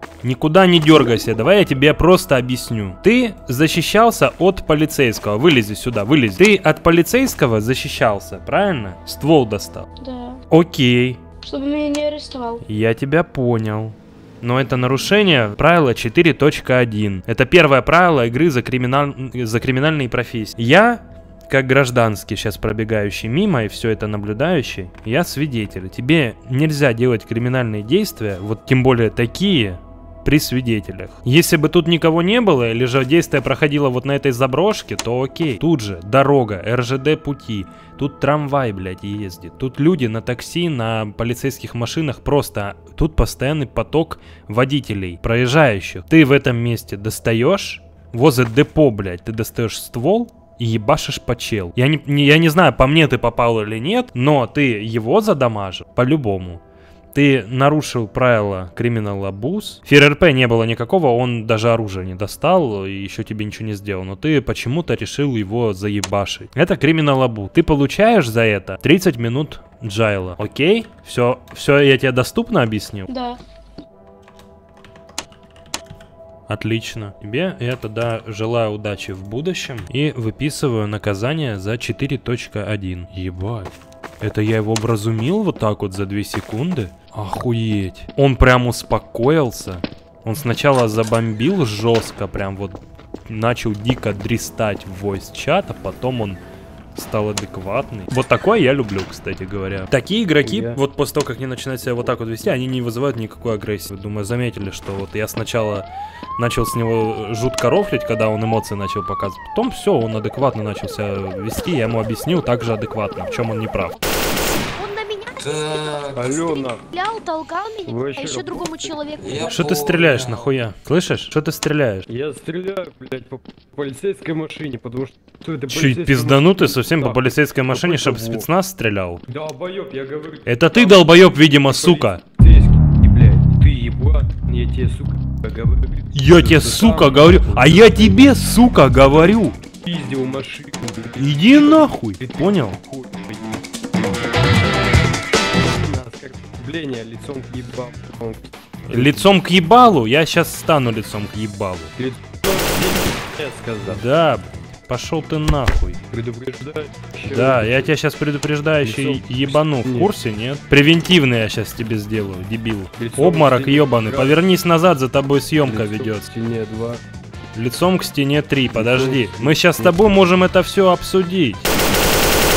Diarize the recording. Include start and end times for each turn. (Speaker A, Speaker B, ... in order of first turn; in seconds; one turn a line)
Speaker A: 0.2-9.9
Speaker B: 10.0-10.4
Speaker A: 10.5-11.2
Speaker B: 11.4-12.6
Speaker A: 12.6-56.6
Speaker A: 57.1-73.1
Speaker B: 73.1-73.4
Speaker A: 76.5-96.4
Speaker A: 96.9-105.9
Speaker C: 100.4-100.8
Speaker A: 106.4-114.0
Speaker D: 114.4-115.3
Speaker E: 115.4-116.4
Speaker C: 116.2-116.8
Speaker D: 116.2-119.5
Speaker C: 117.8-119.0
Speaker E: 119.2-120.5
Speaker A: 119.4-122.1
Speaker C: 122.1-128.5
Speaker A: 125.7-129.2
Speaker C: 129.3-143.5
Speaker A: 130.4-132.2
Speaker A: 136.1-139.6
Speaker A: 141.2-142.8
Speaker C: 145.6-149.4
Speaker A: 148.9-151.9
Speaker C: 151.9-154.0
Speaker A: 153.9-156.0
Speaker C: 156.1-157.9
Speaker A: 157.3-166.3
Speaker C: 158.8-160.1
Speaker C: 163.0-164.4
Speaker C: 165.6-167.0
Speaker A: 167.6-171.7
Speaker C: 168.7-170.3